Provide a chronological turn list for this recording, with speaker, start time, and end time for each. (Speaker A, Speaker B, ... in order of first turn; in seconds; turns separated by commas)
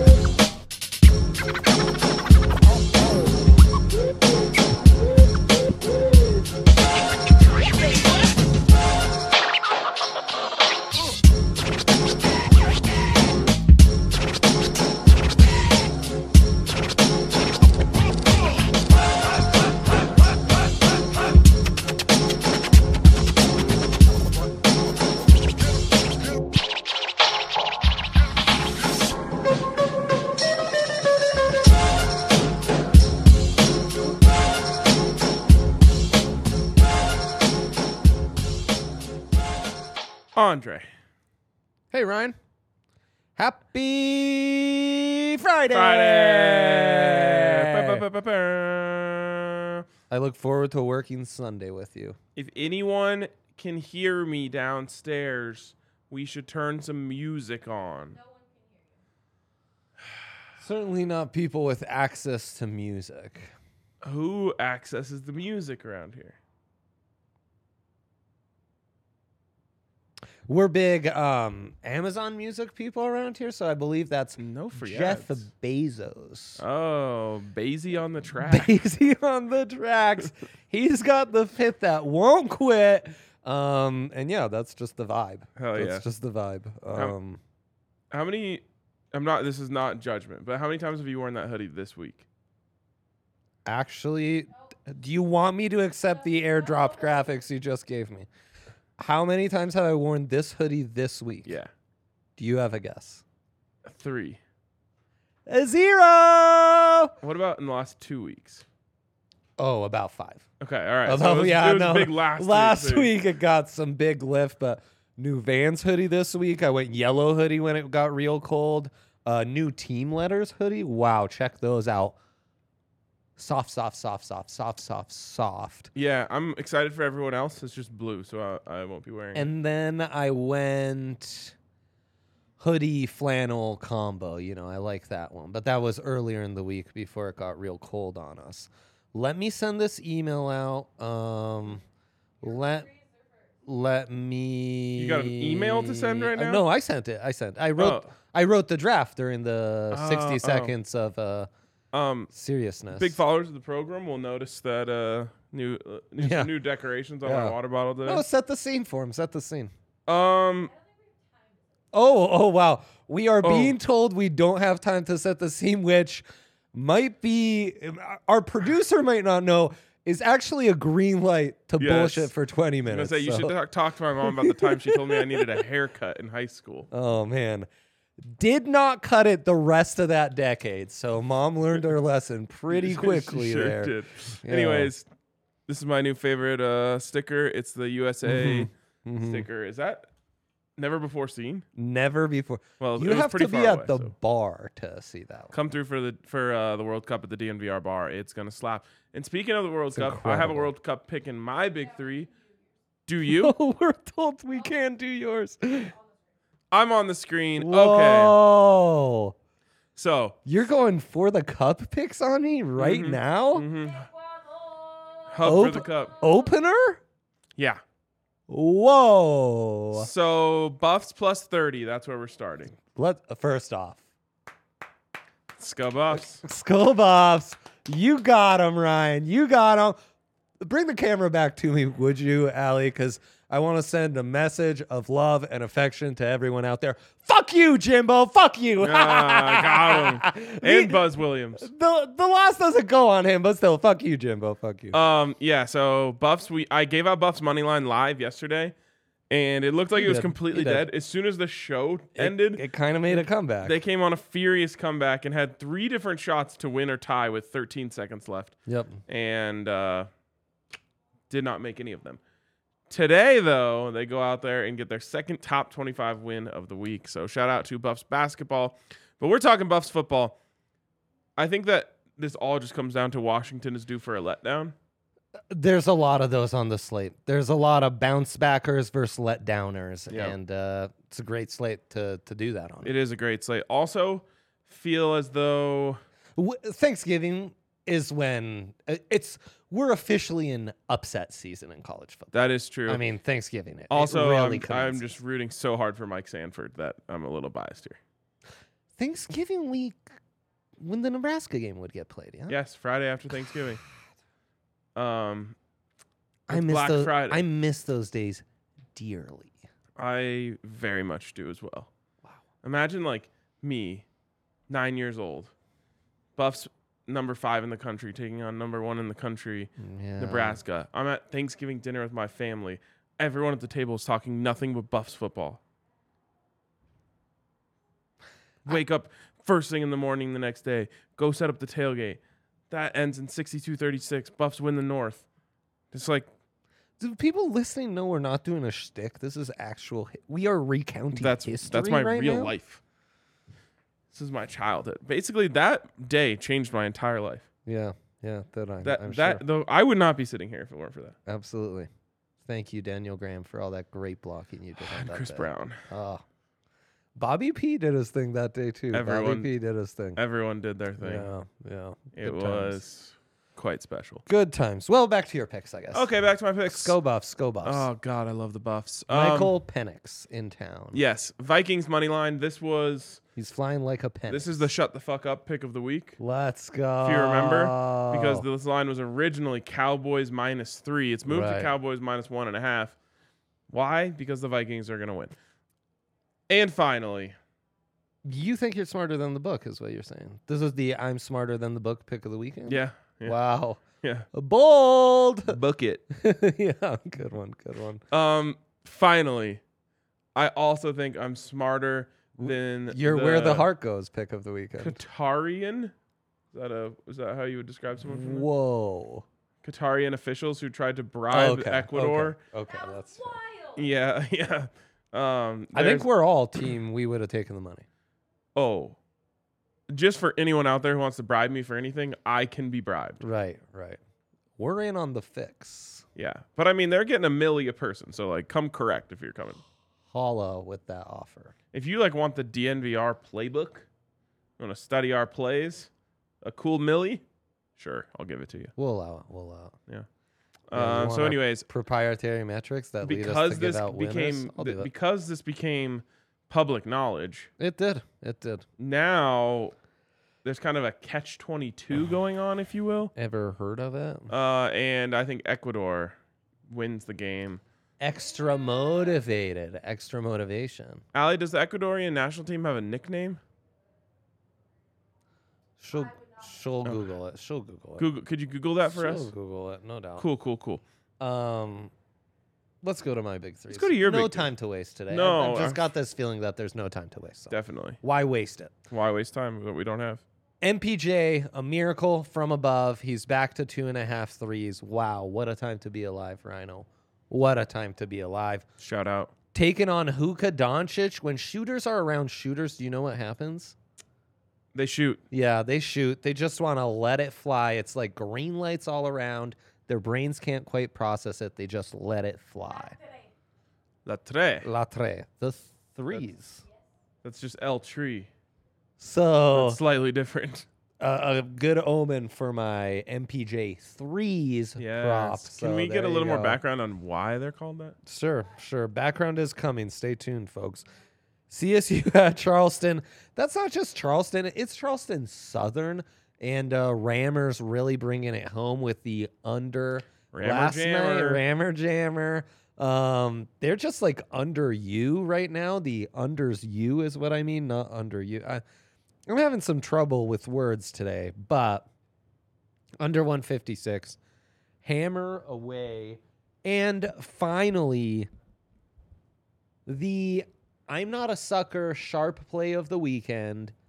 Speaker A: 40.3-40.9, Speaker B: 41.9-42.4, Speaker B: 43.4-48.0, Speaker A: 45.7-49.8, Speaker B: 50.1-52.2, Speaker A: 52.3-58.2, Speaker B: 60.6-63.5, Speaker A: 64.0-66.4, Speaker B: 70.5-76.6, Speaker A: 74.4-75.5, Speaker A: 76.6-78.8, Speaker B: 78.4-87.4, Speaker A: 85.6-86.0, Speaker A: 88.1-92.2, Speaker B: 93.6-98.3, Speaker B: 99.0-101.6, Speaker A: 101.4-101.7, Speaker B: 102.4-103.2, Speaker A: 103.8-104.4, Speaker B: 105.5-107.1, Speaker A: 107.2-108.6, Speaker B: 109.6-110.4, Speaker A: 110.6-113.1, Speaker B: 111.0-122.2, Speaker B: 123.4-125.9, Speaker A: 125.9-129.5, Speaker B: 129.3-131.5, Speaker B: 132.6-141.8, Speaker B: 142.4-142.9, Speaker B: 143.6-151.5, Speaker A: 145.0-146.6, Speaker A: 147.8-148.1, Speaker A: 149.9-150.7, Speaker A: 151.9-152.3, Speaker B: 152.3-153.2, Speaker A: 152.9-158.2, Speaker B: 156.2-156.5, Speaker B: 157.2-159.7, Speaker A: 160.1-160.7, Speaker B: 161.9-173.5, Speaker A: 163.4-163.8, Speaker A: 171.8-172.3, Speaker A: 172.8-176.9, Speaker B: 174.2-175.5, Speaker B: 176.9-177.7, Speaker B: 178.2-184.9, Speaker A: 182.7-185.1, Speaker A: 185.7-190.1, Speaker B: 188.2-189.5, Speaker A: 190.8-191.6, Speaker B: 191.7-195.5, Speaker A: 192.8-194.1, Speaker A: 195.5-202.3, Speaker B: 199.9-200.7, Speaker A: 203.1-203.5, Speaker B: 203.2-206.0, Speaker A: 206.7-208.4, Speaker B: 207.6-209.3, Speaker A: 209.9-210.3, Speaker B: 210.4-213.7, Speaker A: 212.8-214.1, Speaker A: 215.2-216.2, Speaker B: 215.4-217.0, Speaker A: 217.6-217.8, Speaker B: 218.5-220.1, Speaker A: 219.9-222.8, Speaker B: 222.9-224.0, Speaker A: 225.6-226.4, Speaker B: 226.1-229.9, Speaker B: 230.6-245.0, Speaker A: 238.8-241.7, Speaker A: 244.9-248.7, Speaker A: 249.3-258.6, Speaker B: 249.9-250.9, Speaker B: 252.2-253.8, Speaker B: 258.7-259.0, Speaker A: 259.1-260.1, Speaker A: 261.3-262.2, Speaker A: 262.9-270.4, Speaker A: 271.4-274.7, Speaker B: 275.5-282.9, Speaker A: 280.1-280.4, Speaker A: 282.8-286.0, Speaker B: 286.4-292.4, Speaker A: 292.3-293.1, Speaker B: 292.9-295.2, Speaker A: 293.9-298.0, Speaker B: 299.0-300.0, Speaker B: 300.8-302.6, Speaker A: 302.5-303.8, Speaker A: 304.9-305.6, Speaker A: 306.5-307.4, Speaker B: 306.5-309.5, Speaker A: 310.0-311.9, Speaker A: 312.6-314.0, Speaker A: 314.7-315.5, Speaker A: 316.4-325.6, Speaker B: 319.8-320.6, Speaker A: 328.6-332.2, Speaker A: 332.7-335.2, Speaker A: 335.9-336.3, Speaker B: 337.0-342.5, Speaker A: 341.1-342.8, Speaker A: 344.1-347.4, Speaker B: 347.6-349.4, Speaker A: 348.8-351.1, Speaker B: 351.3-351.9, Speaker B: 352.4-356.2, Speaker A: 354.8-355.8, Speaker B: 357.1-360.2, Speaker A: 358.9-359.5, Speaker A: 360.1-361.3, Speaker B: 361.0-362.8, Speaker A: 362.1-364.2, Speaker B: 364.3-366.1, Speaker A: 365.9-367.0, Speaker B: 366.7-367.9, Speaker A: 367.6-369.6, Speaker B: 369.1-371.0, Speaker A: 370.9-373.2, Speaker B: 373.4-374.7, Speaker A: 374.3-376.2, Speaker B: 376.2-378.4, Speaker A: 377.0-382.9, Speaker B: 381.2-381.7, Speaker A: 383.7-385.4, Speaker A: 386.5-387.4, Speaker B: 388.2-395.6, Speaker A: 392.6-393.4, Speaker A: 395.5-396.0, Speaker B: 396.1-398.0, Speaker A: 398.1-399.6, Speaker A: 400.3-403.7, Speaker B: 402.4-405.0, Speaker A: 404.8-405.9, Speaker A: 406.5-408.5, Speaker B: 408.0-409.2, Speaker A: 409.6-412.4, Speaker B: 411.3-413.4, Speaker A: 413.7-416.1, Speaker B: 415.7-417.8, Speaker A: 418.5-419.0, Speaker A: 419.9-423.2, Speaker B: 423.2-424.0, Speaker B: 424.6-426.0, Speaker A: 426.1-429.6, Speaker B: 430.1-431.5, Speaker A: 431.7-433.9, Speaker A: 434.6-435.9, Speaker A: 436.4-437.2, Speaker A: 437.8-438.7, Speaker B: 438.8-439.8, Speaker A: 440.7-441.7, Speaker B: 440.7-444.9, Speaker A: 443.0-447.5, Speaker B: 447.6-448.6, Speaker A: 448.8-449.7, Speaker A: 450.4-453.1, Speaker B: 453.1-454.3, Speaker A: 454.3-456.2, Speaker A: 456.7-457.6, Speaker B: 458.0-461.0, Speaker A: 461.1-463.4, Speaker B: 465.8-468.1, Speaker A: 466.8-467.1, Speaker A: 468.0-469.3, Speaker B: 468.9-470.3, Speaker A: 470.2-470.8, Speaker B: 471.2-471.9, Speaker B: 472.8-478.8, Speaker A: 473.7-474.5, Speaker A: 475.1-475.9, Speaker A: 477.5-478.0, Speaker A: 478.9-480.2, Speaker B: 480.6-488.6, Speaker A: 488.8-489.3, Speaker B: 489.5-493.7, Speaker A: 494.7-495.2, Speaker B: 495.3-503.0, Speaker A: 504.1-504.7, Speaker B: 504.6-506.6, Speaker A: 507.2-508.3, Speaker B: 509.0-509.8, Speaker A: 509.5-510.6, Speaker B: 511.0-516.6, Speaker A: 514.8-518.0, Speaker B: 518.0-520.9, Speaker B: 521.5-538.6, Speaker A: 530.3-531.4, Speaker B: 539.3-541.9, Speaker B: 543.0-544.2, Speaker B: 544.8-548.3, Speaker B: 549.9-553.7